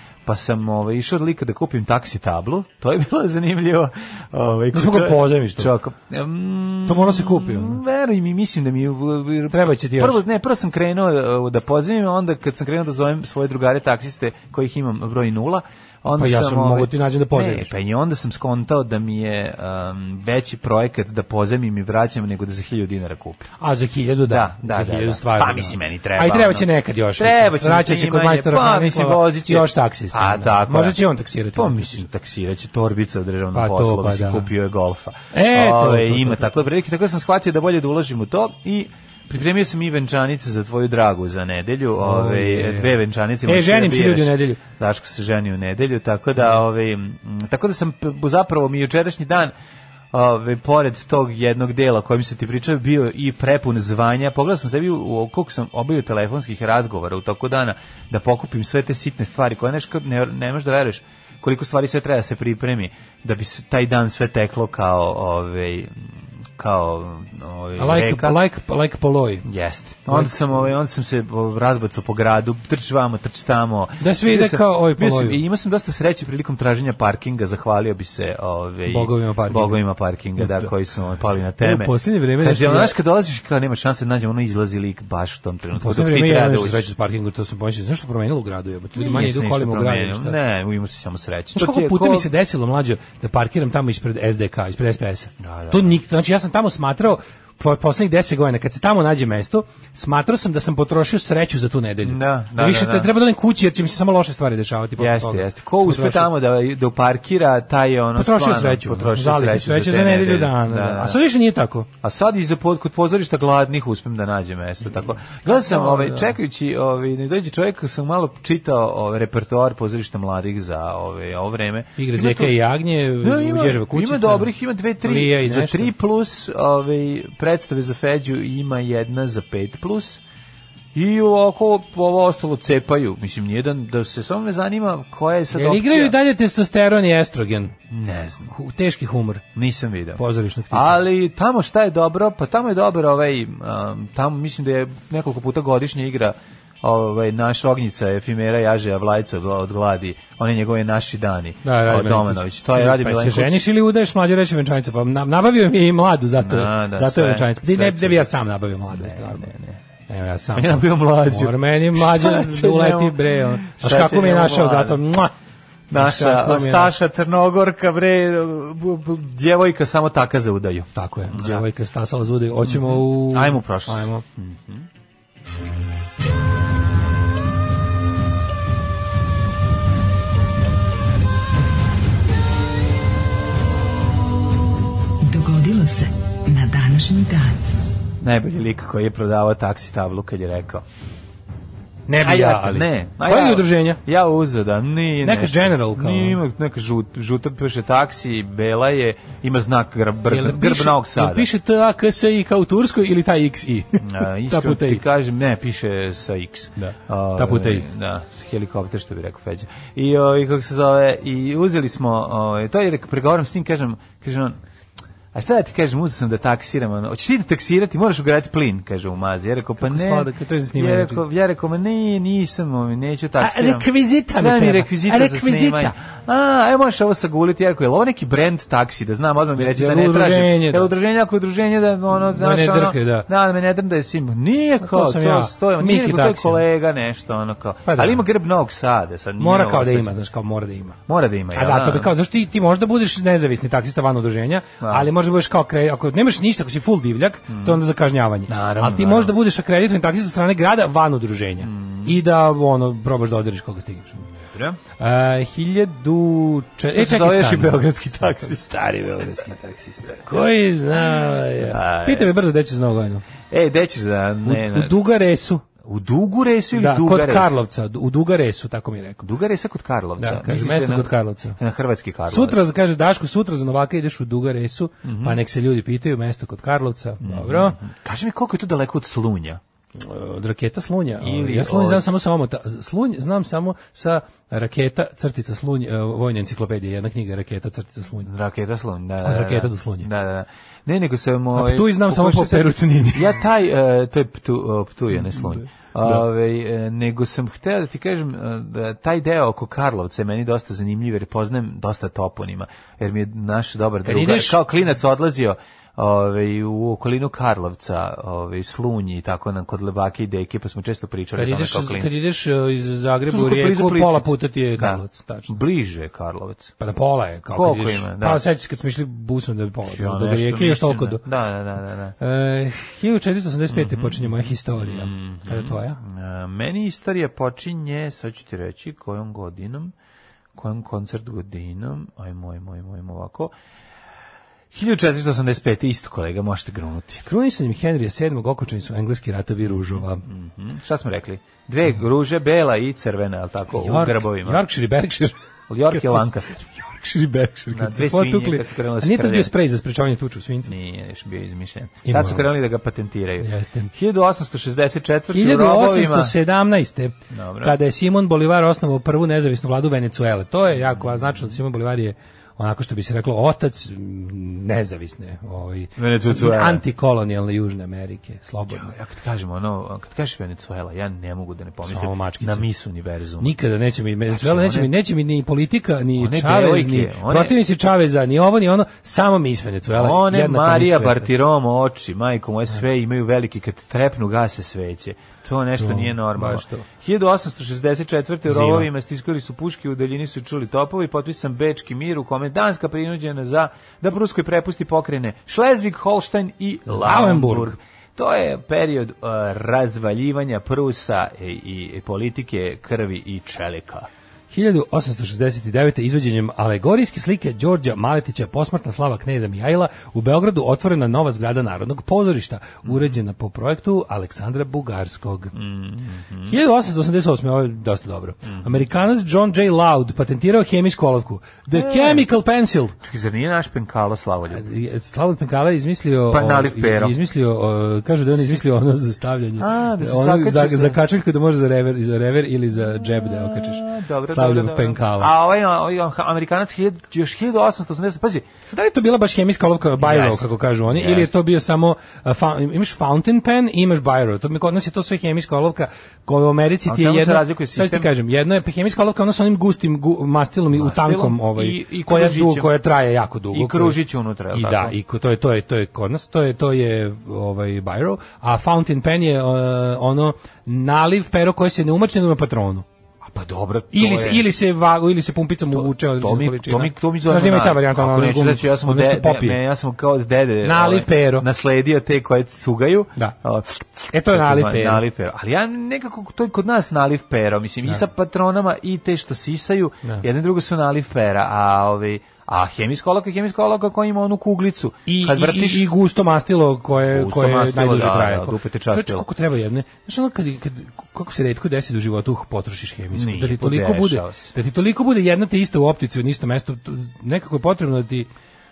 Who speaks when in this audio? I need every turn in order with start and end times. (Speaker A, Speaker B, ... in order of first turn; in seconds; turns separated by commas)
Speaker A: 0.3-23.5, Speaker B: 4.7-5.7, Speaker B: 6.8-7.8, Speaker B: 9.5-10.2, Speaker B: 16.2-17.7, Speaker B: 23.6-32.1, Speaker A: 24.3-31.0, Speaker A: 31.5-49.5, Speaker B: 33.5-34.5, Speaker B: 35.3-36.6, Speaker B: 42.0-44.6, Speaker A: 50.1-68.4, Speaker B: 67.8-69.5, Speaker A: 69.5-86.9, Speaker B: 70.1-70.5, Speaker B: 74.0-75.4, Speaker B: 78.9-79.8, Speaker B: 80.4-80.7, Speaker B: 81.6-83.0, Speaker B: 85.7-90.4, Speaker A: 89.0-92.3, Speaker B: 91.5-106.3, Speaker A: 95.4-96.0, Speaker A: 102.0-103.1, Speaker A: 105.0-111.2, Speaker B: 108.2-111.9, Speaker A: 112.0-122.6, Speaker B: 114.8-116.3, Speaker B: 122.0-125.9, Speaker A: 123.2-130.2, Speaker A: 130.9-136.2, Speaker B: 135.5-137.8, Speaker A: 137.9-138.5, Speaker B: 138.5-139.4, Speaker A: 139.6-153.7, Speaker B: 140.2-141.0, Speaker B: 151.6-159.5, Speaker A: 156.4-158.3, Speaker A: 158.9-159.8, Speaker B: 160.1-165.3, Speaker A: 160.5-165.0, Speaker A: 165.9-171.7, Speaker B: 165.9-166.9, Speaker B: 171.0-174.2, Speaker A: 172.6-174.9, Speaker C: 185.2-187.6, Speaker A: 188.2-190.8, Speaker B: 192.1-194.0, Speaker A: 192.2-201.5, Speaker B: 195.2-196.4, Speaker B: 200.3-205.0, Speaker A: 204.0-214.6, Speaker B: 206.8-207.9, Speaker A: 215.3-240.2, Speaker B: 219.8-221.2, Speaker B: 223.4-225.9, Speaker B: 229.6-230.9, Speaker B: 232.1-233.3, Speaker B: 234.8-236.6, Speaker B: 237.9-238.2, Speaker B: 239.4-241.0, Speaker A: 241.1-242.1, Speaker B: 241.5-254.3, Speaker A: 244.8-245.1, Speaker A: 247.5-247.8, Speaker A: 248.5-249.3, Speaker A: 251.6-252.2, Speaker A: 254.3-254.8, Speaker B: 255.0-263.2, Speaker A: 256.9-258.7, Speaker A: 261.6-262.3, Speaker A: 263.5-265.0, Speaker B: 264.4-265.6, Speaker A: 265.8-267.6, Speaker B: 266.7-269.3, Speaker A: 269.2-272.6, Speaker B: 270.2-271.6, Speaker B: 272.3-277.8, Speaker A: 275.0-275.4, Speaker A: 277.2-279.6, Speaker B: 280.0-288.3, Speaker A: 281.2-282.2, Speaker A: 288.2-312.2, Speaker B: 289.2-290.1, Speaker B: 291.5-293.4, Speaker B: 295.1-296.2, Speaker B: 304.1-304.6, Speaker B: 311.4-315.5, Speaker A: 313.3-316.8, Speaker B: 316.8-321.2, Speaker A: 317.5-318.4, Speaker A: 319.9-322.2, Speaker B: 322.2-326.0, Speaker A: 323.7-329.9, Speaker A: 330.6-333.5, Speaker A: 334.7-337.3, Speaker B: 337.2-340.2, Speaker A: 340.2-344.6, Speaker B: 343.7-345.4, Speaker A: 345.7-346.7, Speaker B: 345.9-350.7, Speaker A: 347.7-349.5, Speaker A: 350.7-356.3, Speaker B: 352.1-352.5, Speaker B: 353.4-353.9, Speaker B: 355.3-368.9, Speaker A: 357.3-357.8, Speaker A: 360.9-361.5, Speaker A: 366.0-366.8, Speaker A: 368.7-373.5, Speaker B: 371.9-372.7, Speaker B: 373.4-381.3, Speaker A: 374.3-374.9, Speaker A: 376.2-377.6, Speaker A: 379.9-404.1, Speaker B: 385.8-386.9, Speaker B: 388.5-388.9, Speaker B: 396.9-397.8, Speaker B: 404.5-415.5, Speaker A: 412.8-413.1, Speaker A: 415.5-416.6, Speaker B: 416.5-423.0, Speaker A: 418.4-418.9, Speaker A: 421.7-422.2, Speaker A: 423.0-424.7, Speaker B: 424.5-435.3, Speaker A: 426.3-427.2, Speaker A: 429.6-431.0, Speaker A: 433.2-438.5, Speaker B: 438.7-454.0, Speaker A: 440.0-441.3, Speaker A: 446.9-448.1, Speaker A: 450.7-452.7, Speaker A: 453.5-455.0, Speaker B: 454.5-462.9, Speaker A: 463.3-464.4, Speaker B: 463.9-469.6, Speaker A: 465.8-485.9, Speaker B: 470.6-471.5, Speaker B: 474.1-475.0, Speaker B: 485.1-498.3, Speaker A: 487.1-489.3, Speaker A: 493.1-494.5